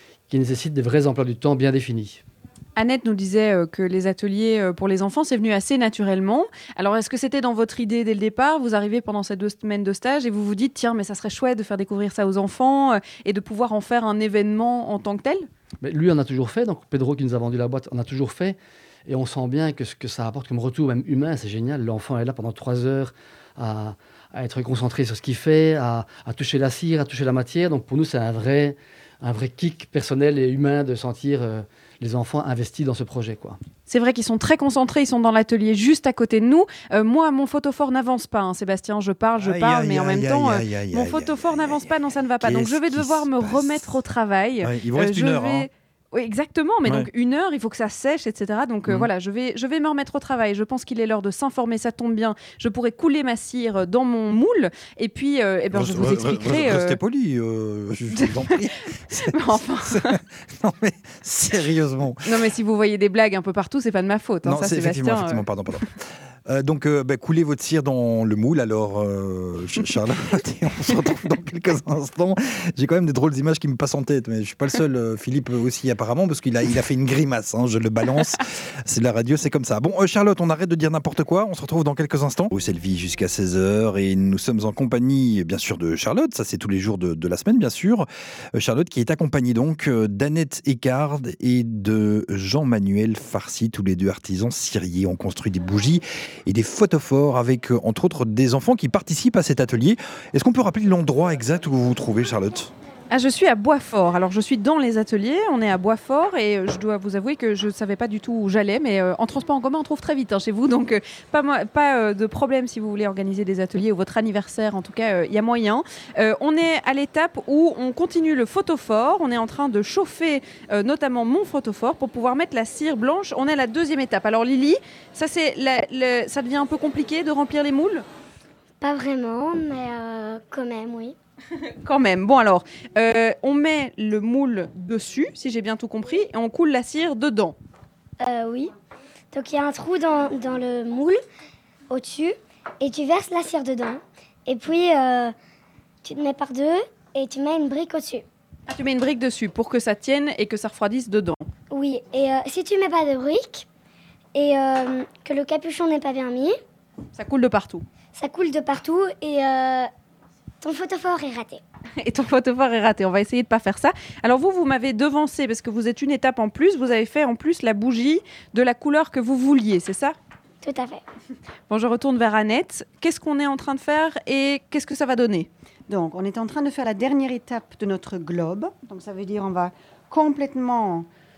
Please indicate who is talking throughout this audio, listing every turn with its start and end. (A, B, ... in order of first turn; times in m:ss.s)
0:00.3-0:02.2 A
0:02.8-0:15.5 B
0:15.8-0:33.6 A
0:33.9-0:57.0 B
0:39.4-0:44.0 C
0:44.6-0:45.7 C
0:55.7-1:02.3 C
0:58.1-0:58.6 B
0:59.2-1:00.2 B
1:02.2-1:05.4 B
1:04.5-1:42.7 C
1:43.1-2:08.1 B
2:08.8-2:11.2 D
2:11.8-2:17.6 B
2:18.2-2:18.7 D
2:19.3-2:21.2 D
2:21.9-2:25.3 D
2:26.0-2:28.2 D
2:28.7-2:31.5 B
2:31.7-2:33.7 D
2:34.4-2:36.6 D
2:37.2-2:37.8 B
2:38.1-2:39.9 D
2:40.6-2:41.6 D
2:42.0-2:50.2 B
2:50.6-2:51.0 D
2:51.7-2:55.5 B
2:55.9-3:01.1 E